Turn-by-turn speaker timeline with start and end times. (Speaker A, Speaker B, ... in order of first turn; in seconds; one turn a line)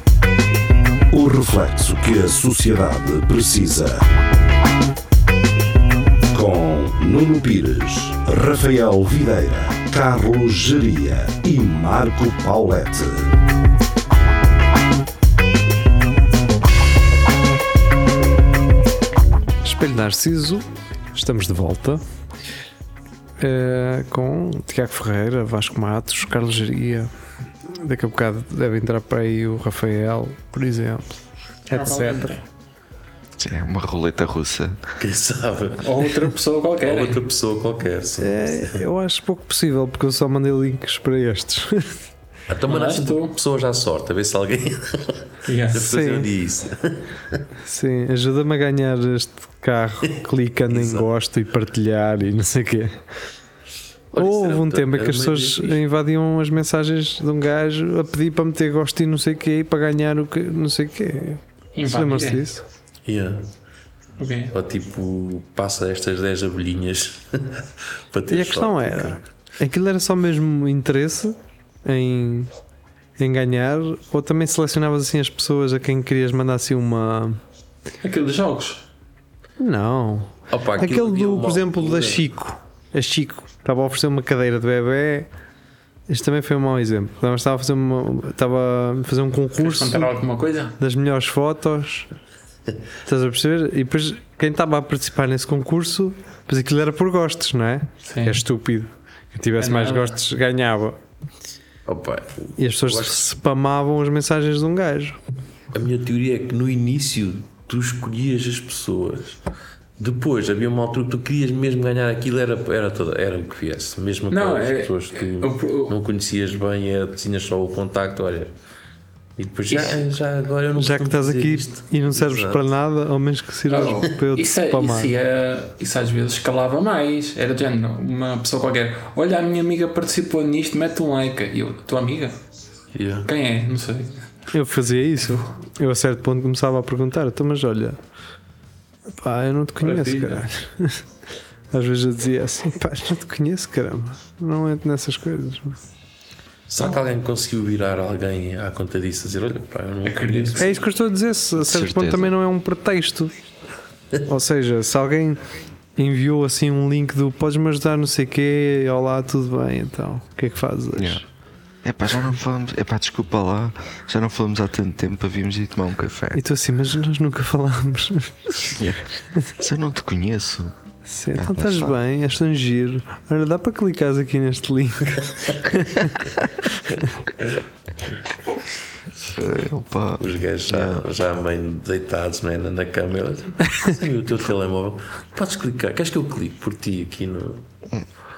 Speaker A: 1.1-4.1
Speaker A: 6.3-13.3
Speaker B: 19.6-22.0
Speaker B: 23.4-27.1
Speaker B: 27.6-32.4
Speaker C: 31.7-32.5
Speaker D: 33.4-34.8
Speaker E: 35.0-36.2
Speaker C: 35.8-37.2
Speaker E: 36.8-38.8
Speaker B: 38.2-42.0
Speaker E: 42.5-47.4
Speaker C: 42.7-43.4
Speaker C: 45.5-45.9
Speaker B: 45.8-46.3
Speaker B: 47.6-53.0
Speaker E: 50.7-51.1
Speaker E: 54.1-55.8
Speaker B: 54.2-62.6
Speaker C: 61.8-62.5
Speaker E: 63.1-63.5
Speaker C: 64.2-64.5
Speaker E: 64.5-69.2
Speaker B: 68.3-72.5
Speaker B: 73.2-77.4
Speaker C: 78.0-78.8
Speaker B: 79.6-85.3
Speaker E: 80.5-82.3
Speaker B: 86.1-90.1
Speaker C: 89.6-90.8
Speaker B: 90.8-92.1
Speaker B: 93.0-101.0
Speaker C: 98.0-98.4
Speaker C: 99.6-100.2
Speaker E: 101.9-103.3
Speaker B: 102.6-105.2
Speaker E: 105.7-109.4
Speaker E: 110.0-118.6
Speaker C: 114.3-116.0
Speaker E: 119.4-122.6
Speaker C: 119.7-120.0
Speaker B: 120.8-125.1
Speaker C: 123.7-132.4
Speaker E: 132.9-133.3
Speaker C: 133.2-134.2
Speaker B: 134.5-138.0
Speaker B: 139.2-141.0
Speaker C: 139.8-140.5
Speaker B: 141.7-145.8
Speaker E: 146.7-150.7
Speaker C: 150.1-150.8
Speaker B: 150.6-153.3
Speaker D: 151.6-152.4
Speaker B: 154.2-155.4
Speaker B: 156.0-161.2
Speaker D: 161.0-161.2
Speaker D: 161.8-166.4
Speaker B: 166.3-168.8
Speaker D: 168.7-170.8
Speaker B: 171.1-176.3
Speaker D: 171.3-172.0
Speaker D: 179.3-181.1
Speaker E: 180.2-187.7